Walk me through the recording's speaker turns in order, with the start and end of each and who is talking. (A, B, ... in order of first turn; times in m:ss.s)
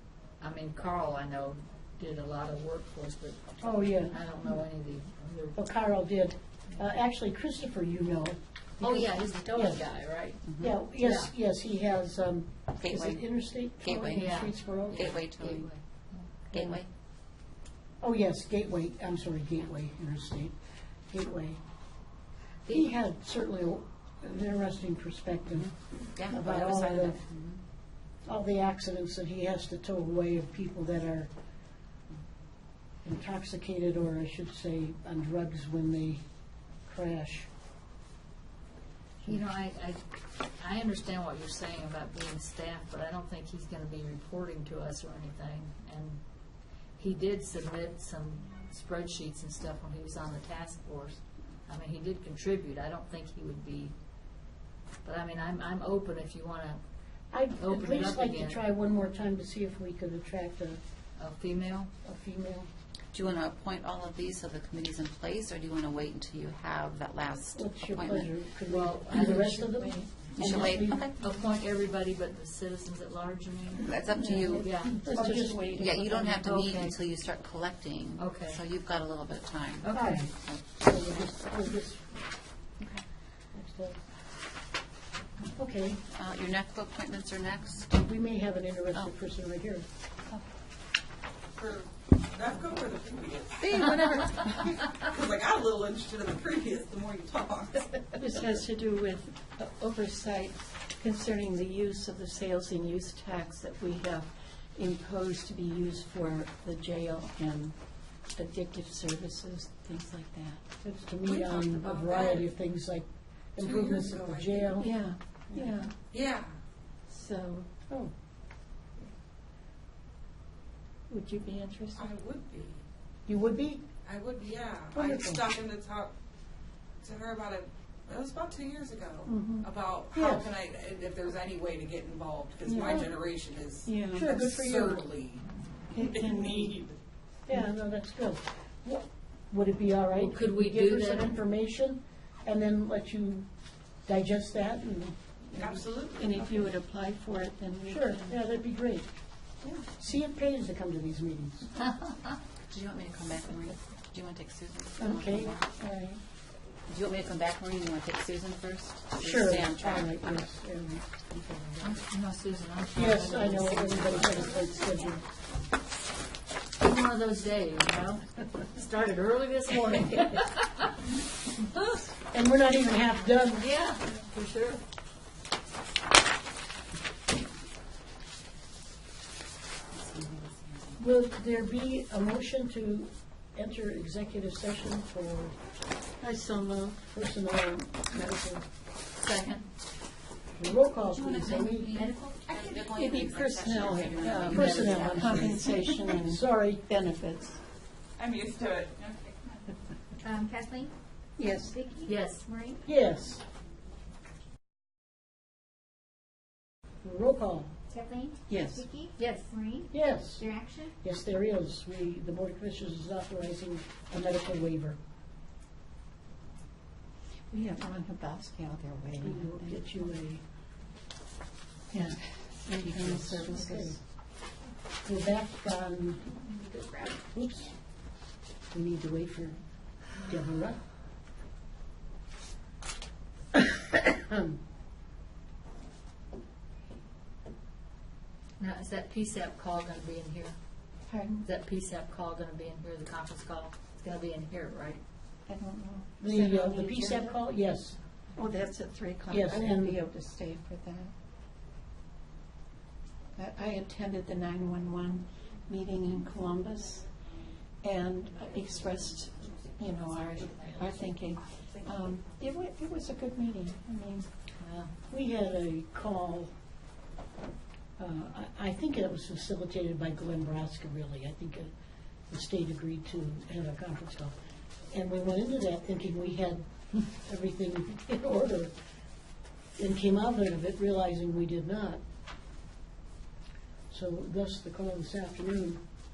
0:00.4-0:05.6 A
0:03.6-0:04.2 B
0:05.6-0:09.8 B
0:08.8-0:10.4 A
0:10.6-0:15.1 B
0:11.0-0:11.3 A
0:12.8-0:13.2 C
0:13.8-0:15.6 C
0:14.1-0:16.3 A
0:16.5-0:16.8 B
0:16.5-0:16.9 C
0:18.0-0:20.5 B
0:21.1-0:21.6 B
0:22.7-0:25.7 B
0:26.1-0:27.6 C
0:26.3-0:27.2 B
0:28.2-0:31.3 B
0:33.0-0:36.2 B
0:36.8-0:37.5 B
0:39.2-0:40.0 A
0:40.6-0:46.2 A
0:47.0-0:53.9 A
0:55.0-0:56.8 A
0:57.3-1:00.8 B
0:57.6-0:58.6 A
1:01.2-1:01.9 A
1:02.0-1:02.7 B
1:03.1-1:08.3 C
1:07.5-1:11.0 B
1:08.7-1:15.0 A
1:09.4-1:10.0 D
1:10.3-1:11.1 C
1:13.8-1:14.9 C
1:14.2-1:16.5 D
1:15.1-1:15.6 B
1:15.7-1:20.8 C
1:16.4-1:17.0 A
1:18.2-1:18.6 A
1:19.8-1:20.2 A
1:19.9-1:22.1 B
1:23.5-1:24.0 B
1:25.6-1:26.0 B
1:26.1-1:28.0 C
1:28.0-1:29.8 B
1:31.6-1:34.0 E
1:33.6-1:35.0 C
1:34.6-1:38.2 E
1:38.2-1:47.8 D
1:48.4-1:50.6 D
1:50.8-1:54.9 B
1:51.2-1:52.5 E
1:53.6-1:54.8 E
1:54.8-1:55.9 D
1:55.5-1:55.9 B
1:56.1-1:56.5 E
1:57.1-1:57.7 D
2:01.1-2:02.1 D
2:01.9-2:02.8 E
2:03.3-2:03.9 B
2:04.0-2:06.1 E
2:04.9-2:05.5 B
2:07.0-2:15.4 E
2:09.2-2:10.5 B
2:12.6-2:13.1 B
2:13.8-2:14.3 D
2:14.1-2:15.0 B
2:15.9-2:16.8 D
2:16.0-2:17.0 E
2:17.5-2:23.5 B
2:20.2-2:21.3 A
2:24.1-2:25.7 B
2:25.5-2:26.7 E
2:26.2-2:28.4 D
2:27.9-2:29.1 B
2:30.0-2:31.7 B
2:32.7-2:35.7 C
2:35.0-2:35.5 B
2:35.8-2:36.2 D
2:36.9-2:40.4 C
2:39.2-2:42.0 B
2:41.8-2:44.7 A
2:42.9-2:45.2 B
2:46.8-2:51.1 A
2:51.7-2:52.0 A
2:52.3-2:53.6 B
2:53.6-2:54.8 A
2:59.9-3:01.0 C
3:01.0-3:05.5 B
3:06.2-3:07.1 D
3:07.1-3:08.6 B
3:09.2-3:09.7 A
3:10.6-3:12.0 B
3:11.0-3:15.6 C
3:11.9-3:12.4 F
3:12.9-3:17.6 D
3:14.4-3:16.8 B
3:14.5-3:15.5 A
3:18.2-3:19.6 E
3:20.2-3:20.9 F
3:21.4-3:21.8 D
3:21.7-3:22.8 F
3:22.0-3:22.4 A
3:22.8-3:23.4 B
3:27.0-3:27.7 B
3:27.9-3:30.9 F
3:28.5-3:28.9 D
3:29.2-3:29.5 A
3:29.9-3:30.5 B
3:31.0-3:35.0 B
3:37.5-3:39.8 D
3:39.2-3:40.4 B
3:41.9-3:44.0 D
3:42.8-3:44.0 B
3:45.0-3:46.2 B
3:46.3-3:47.2 F
3:47.3-3:47.7 B
3:48.7-3:49.6 B
3:50.2-3:50.8 B
3:53.5-3:54.6 B
3:58.6-4:00.6 A
4:01.1-4:01.4 D
4:01.4-4:05.0 A
4:05.4-4:07.4 D
4:06.2-4:08.0 B
4:08.4-4:11.1 D
4:09.3-4:10.0 B
4:13.4-4:17.1 D
4:17.8-4:24.3 D
4:20.3-4:21.0 A
4:24.6-4:24.9 A
4:25.1-4:26.5 B
4:28.0-4:31.7 B
4:32.3-4:34.3 B
4:34.9-4:38.7 B
4:39.8-4:42.0 B
4:43.9-4:45.8 B